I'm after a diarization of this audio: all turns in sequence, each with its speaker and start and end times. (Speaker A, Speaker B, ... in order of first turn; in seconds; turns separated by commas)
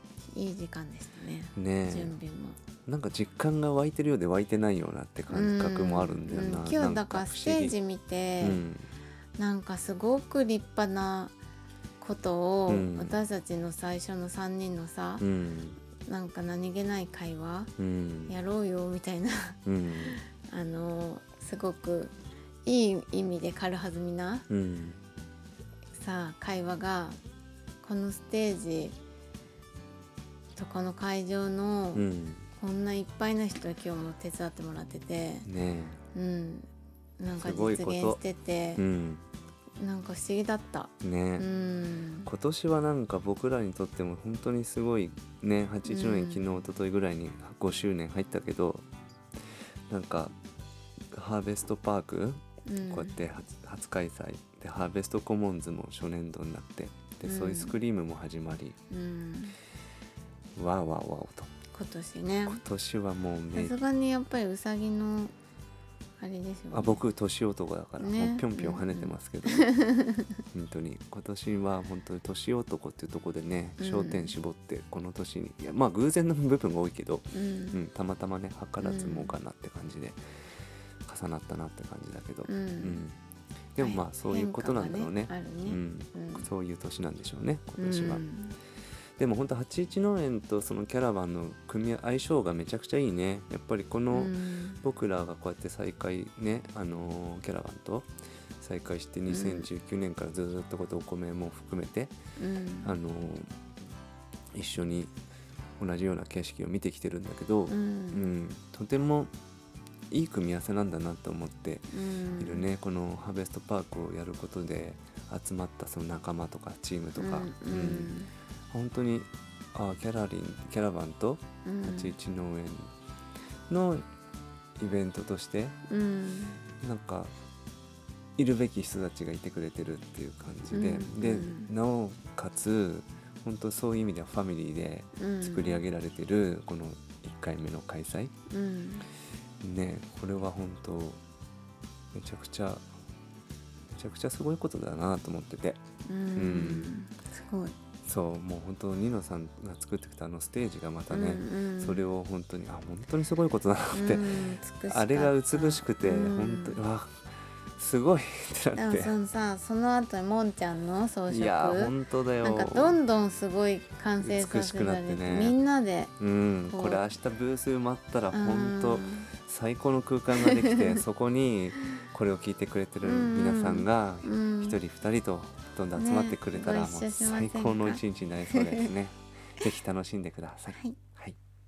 Speaker A: 0.2-2.6, Speaker B: 1.5-2.1, Speaker B: 2.9-7.8, Speaker A: 5.3-8.6, Speaker B: 8.4-8.9, Speaker A: 9.4-11.3, Speaker A: 12.0-15.2, Speaker B: 12.7-13.2, Speaker B: 15.2-15.8, Speaker A: 16.0-17.7, Speaker B: 17.8-18.3, Speaker A: 18.3-22.1, Speaker B: 19.6-20.2, Speaker A: 22.6-24.5, Speaker B: 24.5-25.0, Speaker A: 25.9-27.2, Speaker A: 27.8-29.0, Speaker A: 30.6-32.0, Speaker B: 31.9-32.5, Speaker A: 32.6-35.5, Speaker B: 35.4-36.0, Speaker A: 36.1-36.7, Speaker A: 37.2-38.8, Speaker B: 37.4-38.2, Speaker B: 38.8-39.2, Speaker A: 39.8-42.3, Speaker B: 41.0-41.5, Speaker B: 42.2-48.8, Speaker A: 45.8-46.4, Speaker B: 49.9-50.3, Speaker B: 51.1-58.8, Speaker A: 52.6-53.2, Speaker A: 57.2-57.8, Speaker A: 58.9-59.6, Speaker B: 60.5-61.5, Speaker A: 61.7-62.6, Speaker B: 62.5-63.8, Speaker A: 63.5-65.3, Speaker A: 66.2-67.0, Speaker B: 66.7-69.7, Speaker A: 68.0-70.3, Speaker B: 70.5-80.3, Speaker A: 73.8-74.3, Speaker A: 77.3-77.8, Speaker A: 78.8-79.3, Speaker B: 81.0-83.2, Speaker A: 82.5-83.0, Speaker B: 83.8-88.2, Speaker A: 83.8-86.5, Speaker A: 87.8-88.6, Speaker B: 89.2-102.1, Speaker A: 94.1-94.8, Speaker A: 99.3-99.7, Speaker A: 102.4-103.0, Speaker B: 102.8-103.5, Speaker B: 104.5-105.1, Speaker B: 105.8-109.3, Speaker A: 107.7-108.2, Speaker B: 110.1-118.1, Speaker A: 111.9-112.6, Speaker A: 117.2-118.3, Speaker B: 118.7-122.9, Speaker A: 121.7-122.1, Speaker B: 123.7-124.0, Speaker B: 124.8-125.7, Speaker A: 125.9-126.6, Speaker B: 126.8-127.3, Speaker B: 128.4-138.3, Speaker A: 130.7-131.7, Speaker A: 135.2-135.8, Speaker A: 138.5-139.1, Speaker B: 139.6-141.2, Speaker B: 142.1-142.9, Speaker B: 143.9-145.8, Speaker A: 146.1-147.7, Speaker B: 146.3-146.9, Speaker B: 148.1-157.2, Speaker A: 151.1-152.1, Speaker A: 153.9-156.8, Speaker B: 157.8-159.2, Speaker A: 158.8-166.1, Speaker B: 161.3-163.0, Speaker B: 164.2-165.6, Speaker B: 166.2-181.3, Speaker A: 166.7-167.0, Speaker A: 168.3-169.3, Speaker A: 170.4-170.8, Speaker A: 173.0-174.8, Speaker A: 175.9-178.9, Speaker A: 180.7-181.0